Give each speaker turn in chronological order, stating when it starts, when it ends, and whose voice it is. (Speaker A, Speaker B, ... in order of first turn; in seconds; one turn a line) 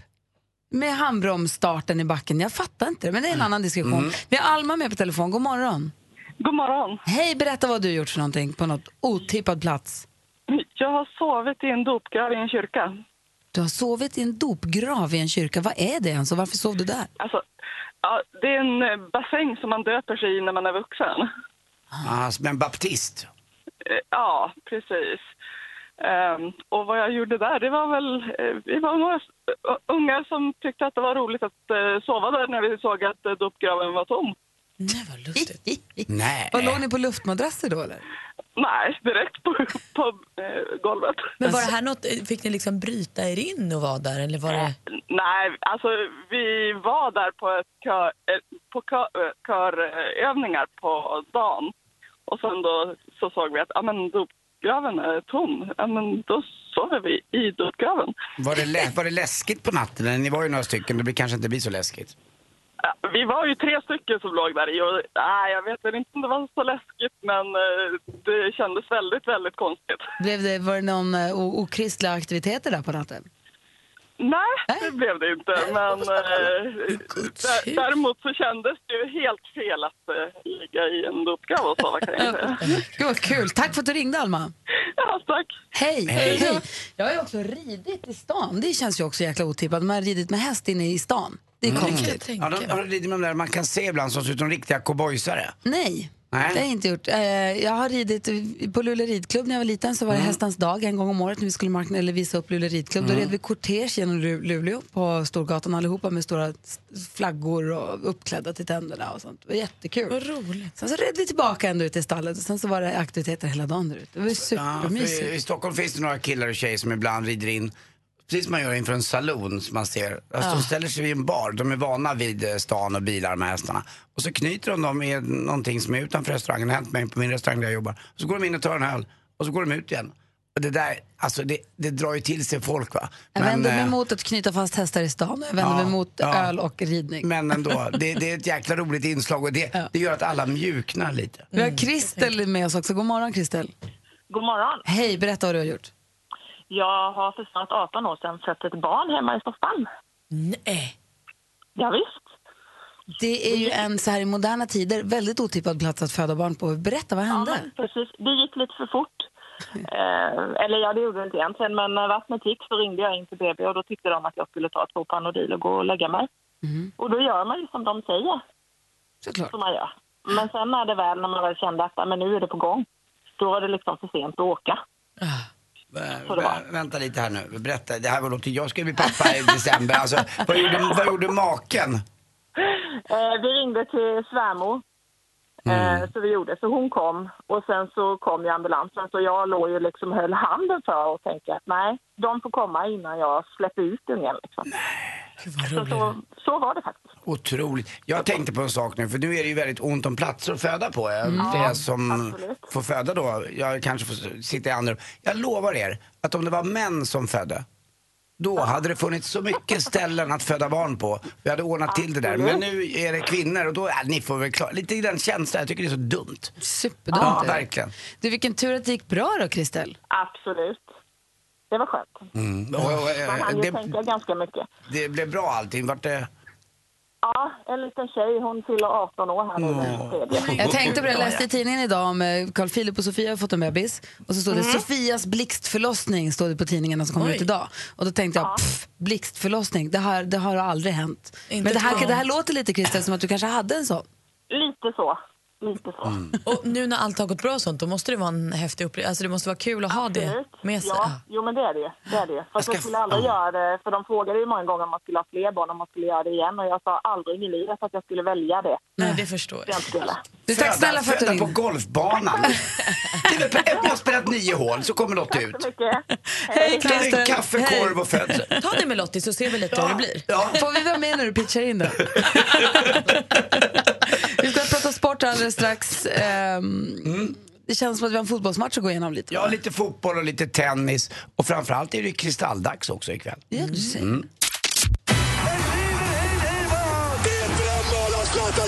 Speaker A: 0.7-5.9
Speaker B: 3.8-4.1
Speaker C: 6.4-7.0
Speaker A: 7.0-10.1
Speaker C: 10.5-13.0
Speaker A: 13.5-17.1
Speaker C: 17.2-17.4
Speaker C: 18.0-21.3
Speaker B: 22.0-23.3
Speaker C: 23.9-25.2
Speaker C: 26.0-34.4
Speaker D: 34.8-35.6
Speaker A: 35.4-38.0
Speaker B: 36.1-36.8
Speaker C: 38.6-41.4
Speaker D: 41.4-44.7
Speaker C: 44.5-51.7
Speaker C: 52.3-58.1
Speaker B: 58.4-62.1
Speaker C: 62.8-70.0
Speaker A: 70.2-73.3
Speaker C: 74.2-82.6
Speaker D: 77.0-77.9
Speaker A: 82.2-84.5
Speaker C: 85.0-85.5
Speaker A: 85.7-92.2
Speaker B: 86.1-86.6
Speaker B: 91.7-95.5
Speaker D: 91.7-92.8
Speaker A: 95.6-110.2
Speaker B: 96.3-96.6
Speaker B: 100.1-100.4
Speaker B: 103.0-103.3
Speaker D: 110.1-110.7
Speaker A: 110.8-115.3
Speaker B: 114.3-117.7
Speaker B: 118.3-133.9
Speaker D: 120.4-120.7
Speaker A: 133.3-137.3
Speaker B: 135.6-136.5
Speaker B: 137.2-141.5
Speaker D: 141.5-142.3
Speaker A: 141.5-143.7
Speaker E: 144.3-144.8
Speaker A: 144.8-145.9
Speaker E: 146.7-149.9
Speaker D: 150.3-150.9
Speaker E: 151.8-152.3
Speaker A: 153.1-157.7
Speaker E: 157.3-159.3
Speaker E: 159.8-166.3
Speaker A: 166.6-166.9
Speaker E: 167.0-168.4
Speaker A: 169.2-169.5
Speaker E: 169.5-172.8
Speaker E: 173.4-174.8
Speaker B: 175.9-182.0
Speaker E: 176.3-176.6
Speaker E: 182.6-184.8
Speaker B: 185.7-186.1
Speaker E: 185.7-194.7
Speaker D: 195.4-196.1
Speaker E: 195.7-197.1
Speaker B: 197.2-207.6
Speaker A: 201.2-201.7
Speaker E: 201.4-202.7
Speaker B: 208.4-216.5
Speaker E: 211.9-212.6
Speaker A: 216.6-217.6
Speaker B: 217.2-217.9
Speaker A: 218.2-219.9
Speaker E: 220.1-220.9
Speaker E: 221.7-222.3
Speaker B: 222.3-223.9
Speaker E: 223.1-224.7
Speaker B: 224.9-226.3
Speaker E: 227.2-230.9
Speaker B: 229.6-231.2
Speaker D: 230.3-231.3
Speaker A: 230.6-244.1
Speaker D: 234.5-234.8
Speaker D: 237.2-237.5
Speaker D: 241.5-242.2
Speaker E: 244.5-246.3
Speaker B: 246.1-246.3
Speaker D: 246.4-251.2
Speaker E: 249.9-258.9
Speaker B: 252.6-253.3
Speaker A: 259.0-259.2
Speaker D: 259.0-259.9
Speaker E: 259.7-260.2
Speaker A: 260.5-261.6
Speaker B: 260.5-262.6
Speaker B: 263.2-265.6
Speaker E: 265.3-267.1
Speaker A: 266.6-268.0
Speaker B: 266.8-268.5
Speaker D: 268.5-270.2
Speaker B: 269.7-270.6
Speaker A: 270.5-273.1
Speaker A: 274.1-279.6
Speaker B: 277.0-277.4
Speaker B: 279.3-284.3
Speaker A: 283.5-284.2